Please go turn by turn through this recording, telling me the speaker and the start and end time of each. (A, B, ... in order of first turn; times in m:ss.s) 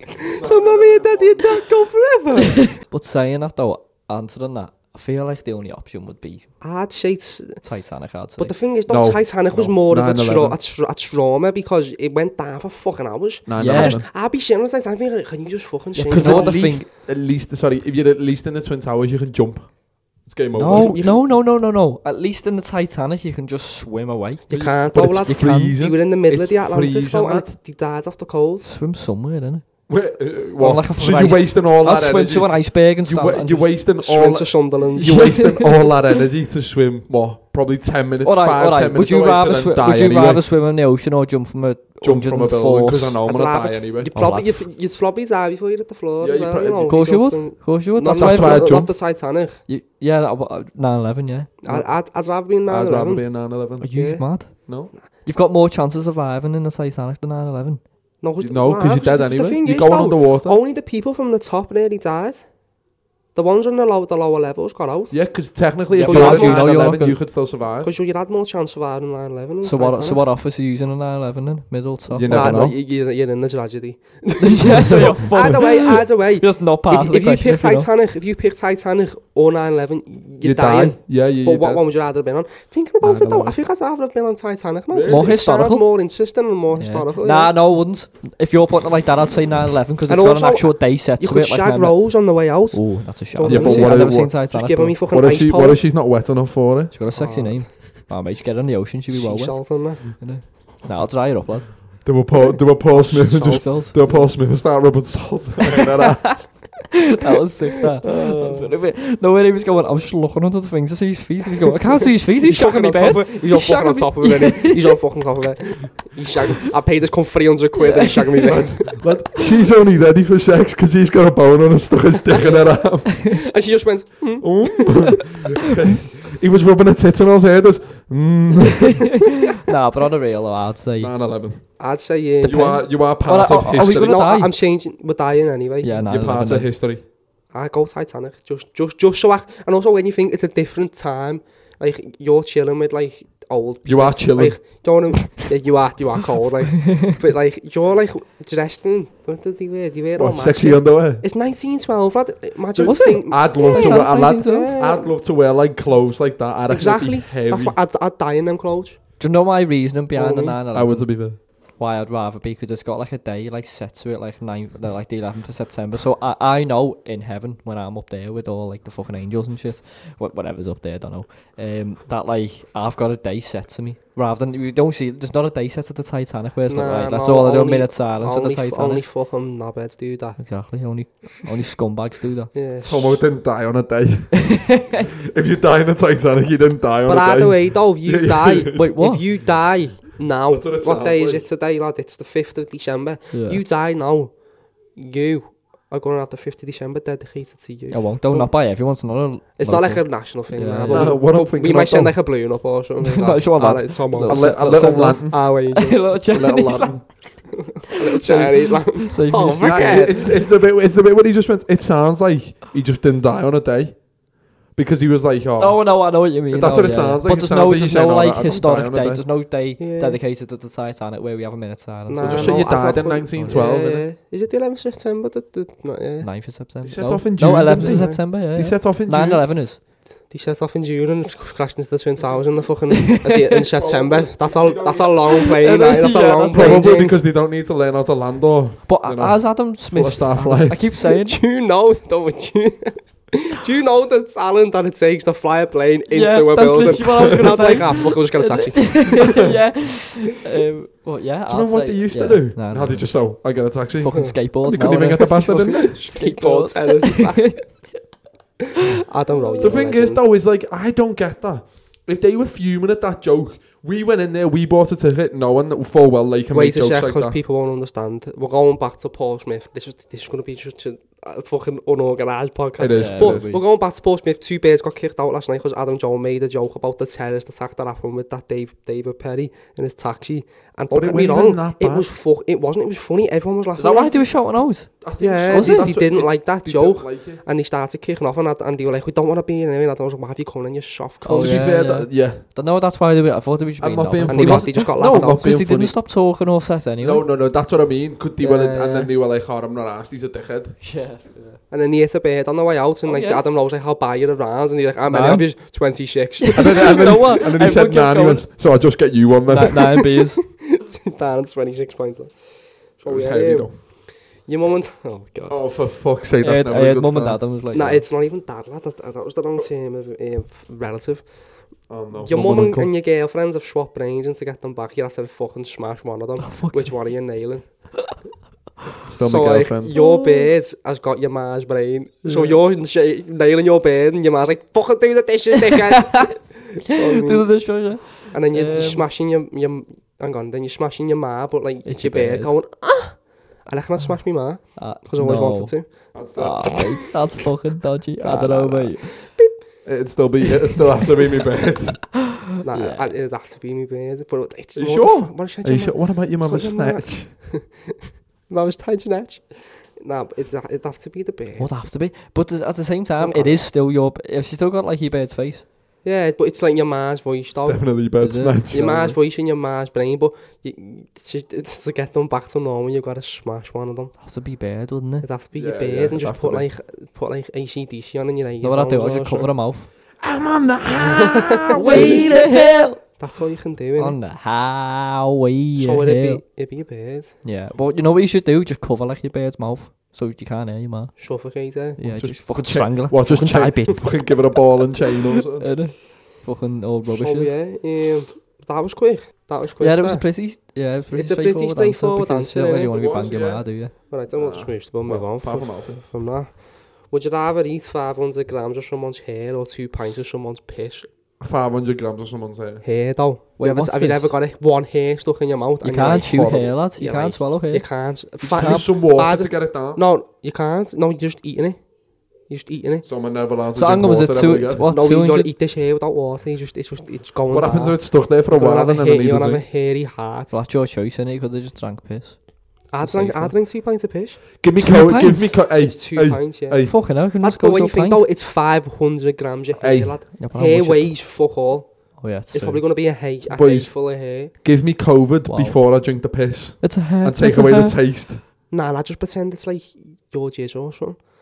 0:00.2-0:02.7 A
0:00.4-0:01.6 B
0:02.8-0:06.5 C
0:06.6-0:07.6 A
0:07.6-0:08.5 C
0:08.4-0:16.6 A
0:08.9-0:10.6 B
0:13.5-0:14.0 B
0:13.6-0:14.0 C
0:16.0-0:16.9 C
0:16.0-0:19.7 B
0:20.2-0:21.0 B
0:20.6-0:25.8 C
0:20.7-0:21.2 A
0:24.5-0:28.7 A
0:24.5-0:27.5 B
0:28.6-0:29.6 C
0:29.9-0:40.4 B
0:30.6-0:33.7 C
0:34.0-0:35.7 A
0:35.0-0:35.5 C
0:38.2-0:43.2 C
0:42.0-0:44.1 B
0:43.2-0:49.6 A
0:44.1-0:44.6 C
0:46.2-0:47.0 B
0:46.8-0:48.9 C
0:48.2-0:48.9 B
0:49.7-0:51.6 C
0:51.6-0:53.3 A
0:52.6-0:53.9 B
0:53.8-0:54.6 C
0:53.9-0:54.2 A
0:54.6-0:54.9 B
0:55.2-0:57.8 C
0:58.2-1:02.4 A
0:58.4-1:00.6 B
1:03.3-1:05.2 A
1:05.1-1:07.9 B
1:05.9-1:07.2 C
1:06.0-1:06.8 A
1:07.8-1:10.2 A
1:09.6-1:12.7 C
1:12.1-1:12.7 B
1:12.3-1:27.5 A
1:14.4-1:17.9 C
1:20.4-1:21.8 B
1:23.0-1:23.6 C
1:24.9-1:25.3 B
1:25.0-1:25.9 C
1:26.8-1:32.0 C
1:30.1-1:35.8 A
1:32.7-1:35.0 C
1:33.4-1:34.4 B
1:35.1-1:36.9 B
1:36.9-1:42.0 C
1:37.1-1:37.7 A
1:39.1-1:40.2 A
1:42.0-1:46.7 B
1:42.9-1:44.3 C
1:46.0-1:55.0 C
1:48.1-1:48.7 A
1:52.4-1:59.0 A
1:57.8-1:58.6 C
1:58.5-2:03.2 B
2:02.3-2:05.2 A
2:04.4-2:09.2 B
2:08.9-2:11.1 C
2:11.0-2:11.6 B
2:11.8-2:12.8 A
2:12.4-2:14.2 B
2:12.4-2:14.5 C
2:13.7-2:16.0 A
2:15.8-2:16.7 C
2:16.0-2:17.0 B
2:17.5-2:35.1 A
2:23.8-2:24.6 B
2:30.2-2:31.2 B
2:32.7-2:37.7 B
2:32.8-2:34.7 C
2:36.7-2:39.0 A
2:39.2-2:41.2 C
2:40.1-2:40.6 A
2:40.7-2:41.4 B
2:41.8-2:59.0 C
2:56.7-3:00.5 A
3:00.4-3:02.5 C
3:02.5-3:03.2 A
3:02.8-3:08.9 B
3:04.4-3:05.0 C
3:07.1-3:14.3 A
3:08.7-3:09.2 C
3:10.5-3:11.4 B
3:13.3-3:13.6 C
3:14.9-3:18.5 A
3:17.9-3:21.2 C
3:19.6-3:26.1 A
3:20.8-3:22.2 B
3:23.0-3:27.2 C
3:24.2-3:25.4 B
3:26.3-3:27.0 B
3:27.5-3:30.4 A
3:28.0-3:30.1 C
3:29.6-3:34.0 B
3:34.7-3:39.2 B
3:35.6-3:42.8 C
3:39.8-3:40.2 A
3:42.1-3:46.3 A
3:42.2-3:44.0 B
3:43.4-3:43.6 C
3:46.2-3:49.8 C
3:46.8-3:49.4 B
3:47.7-3:48.2 A
3:50.3-3:57.2 A
3:52.9-3:53.6 C
3:53.7-3:55.3 B
3:55.3-3:57.1 C
3:56.5-4:00.8 B
3:58.9-4:01.4 C
4:01.0-4:09.4 A
4:06.1-4:13.1 C
4:11.5-4:16.0 B
4:14.0-4:18.1 C
4:14.1-4:14.3 A
4:15.5-4:17.9 A
4:19.0-4:20.2 A
4:19.4-4:19.8 C
4:19.6-4:27.4 B
4:26.5-4:44.2 A
4:32.8-4:33.5 B
4:32.9-4:33.6 C
4:40.9-4:42.1 B
4:43.8-4:44.9 C
4:45.0-4:47.4 B
4:45.2-4:51.7 A
4:45.5-4:45.9 C
4:51.2-4:57.2 C
4:51.3-4:52.4 B
4:53.8-4:56.0 B
4:54.3-4:55.5 A
4:57.0-5:00.8 B
4:58.4-4:59.1 A
5:00.8-5:01.3 C
5:01.7-5:07.0 A
5:03.0-5:03.4 C
5:05.1-5:05.5 C
5:06.4-5:08.5 C
5:06.5-5:10.0 B
5:09.5-5:10.4 C
5:10.6-5:12.3 A
5:13.0-5:13.9 A
5:13.0-5:13.7 B
5:14.5-5:15.6 A
5:15.5-5:17.4 B
5:16.4-5:18.0 C
5:17.7-5:21.2 A
5:21.9-5:22.9 B
5:22.2-5:27.6 A
5:26.4-5:26.9 C
5:29.0-5:29.9 B
5:29.2-5:45.9 A
5:29.9-5:30.5 C
5:32.2-5:32.6 C
5:35.6-5:39.0 C
5:41.8-5:42.5 C
5:44.8-5:45.7 C
5:46.1-5:46.8 B
5:46.3-5:49.2 C
5:48.2-5:49.5 A
5:49.8-5:52.1 B
5:52.5-5:53.1 C
5:52.6-5:58.0 A
5:54.8-5:57.3 B
5:58.5-6:01.7 A
6:01.6-6:05.6 C
6:03.2-6:03.6 A
6:06.0-6:08.0 A
6:07.6-6:09.2 B
6:08.2-6:08.7 C
6:08.7-6:14.2 A
6:14.2-6:15.2 C
6:15.2-6:19.5 A
6:15.5-6:16.7 B
6:18.6-6:19.9 C
6:20.2-6:22.8 B
6:21.1-6:24.2 A
6:21.7-6:23.0 C
6:24.0-6:26.4 C
6:25.8-6:27.3 A
6:27.4-6:31.1 C
6:31.2-6:32.0 A
6:32.0-6:34.1 C
6:32.0-6:35.8 B
6:35.6-6:37.5 C
6:37.1-6:40.4 A
6:39.8-6:43.9 C
6:41.1-6:43.0 A
6:42.9-6:43.7 B
6:44.1-6:51.1 A
6:44.3-6:46.0 B
6:51.4-6:52.8 B
6:52.8-7:01.8 A
6:53.6-6:54.3 C
6:55.8-6:57.8 C
6:56.3-6:56.6 B
6:58.4-6:58.9 C
6:58.5-7:00.0 B
7:02.5-7:03.0 A
7:03.0-7:04.8 B
7:03.7-7:05.5 C
7:04.9-7:10.5 A
7:07.5-7:09.6 B
7:10.5-7:12.4 C
7:12.9-7:14.4 A
7:13.0-7:13.5 C
7:14.6-7:16.9 B
7:14.8-7:15.6 C
7:15.8-7:21.9 A
7:16.8-7:18.2 C
7:19.8-7:20.1 B
7:20.4-7:21.1 C
7:22.2-7:22.8 C
7:22.5-7:24.5 A
7:23.5-7:23.9 B
7:24.6-7:28.4 B
7:25.4-7:25.8 C
7:26.8-7:28.0 C
7:28.7-7:31.2 A